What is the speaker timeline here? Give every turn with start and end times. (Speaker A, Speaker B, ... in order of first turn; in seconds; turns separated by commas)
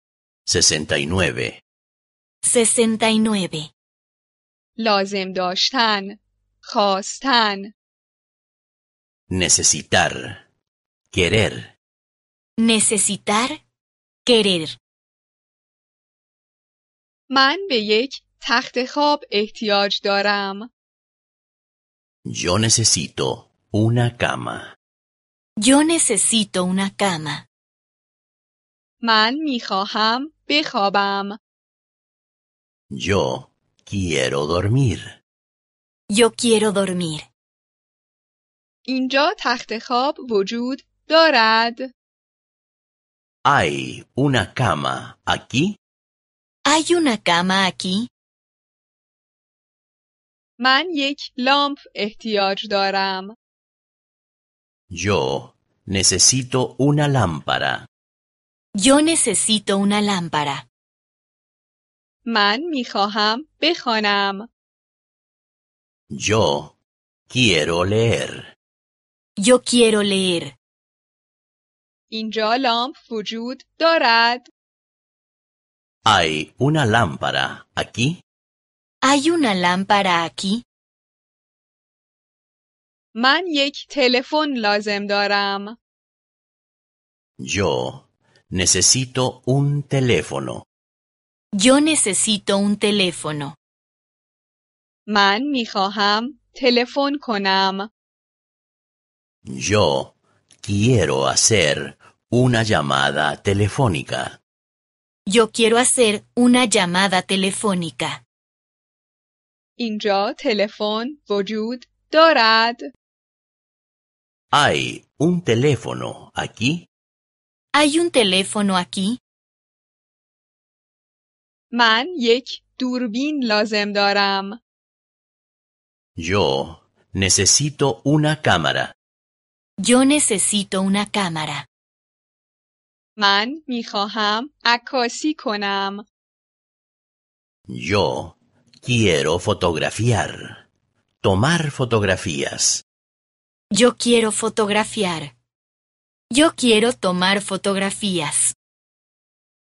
Speaker A: 0.5-1.6, Speaker B: 2.4-3.7, Speaker C: 4.8-7.7, Speaker A: 9.3-10.4, Speaker A: 11.1-11.7, Speaker B: 12.6-13.6, Speaker B: 14.2-14.8, Speaker C: 17.3-20.7, Speaker A: 22.2-24.7, Speaker B: 25.6-27.4, Speaker C: 29.0-31.4, Speaker A: 32.9-35.2, Speaker B: 36.1-37.3, Speaker C: 38.9-41.9, Speaker A: 43.5-45.8, Speaker B: 46.6-48.1, Speaker C: 50.6-53.3, Speaker A: 54.9-57.9, Speaker B: 58.8-60.6, Speaker C: 62.2-64.5, Speaker A: 66.1-66.8, Speaker A: 67.3-68.5, Speaker B: 69.4-70.5, Speaker C: 72.1-74.5, Speaker A: 76.0-78.2, Speaker B: 79.0-80.6, Speaker C: 83.1-85.8, Speaker A: 87.4-90.7, Speaker B: 91.5-93.5, Speaker C: 95.1-97.9, Speaker A: 99.5-104.4, Speaker B: 105.3-108.2, Speaker C: 109.8-112.8, Speaker A: 114.5-116.9, Speaker B: 117.7-119.2, Speaker C: 121.7-124.6, Speaker A: 126.2-128.9, Speaker B: 129.8-131.7, Speaker C: 133.2-136.1, Speaker A: 137.7-140.6, Speaker A: 141.2-142.8, Speaker B: 143.7-145.3, Speaker B: 146.3-148.5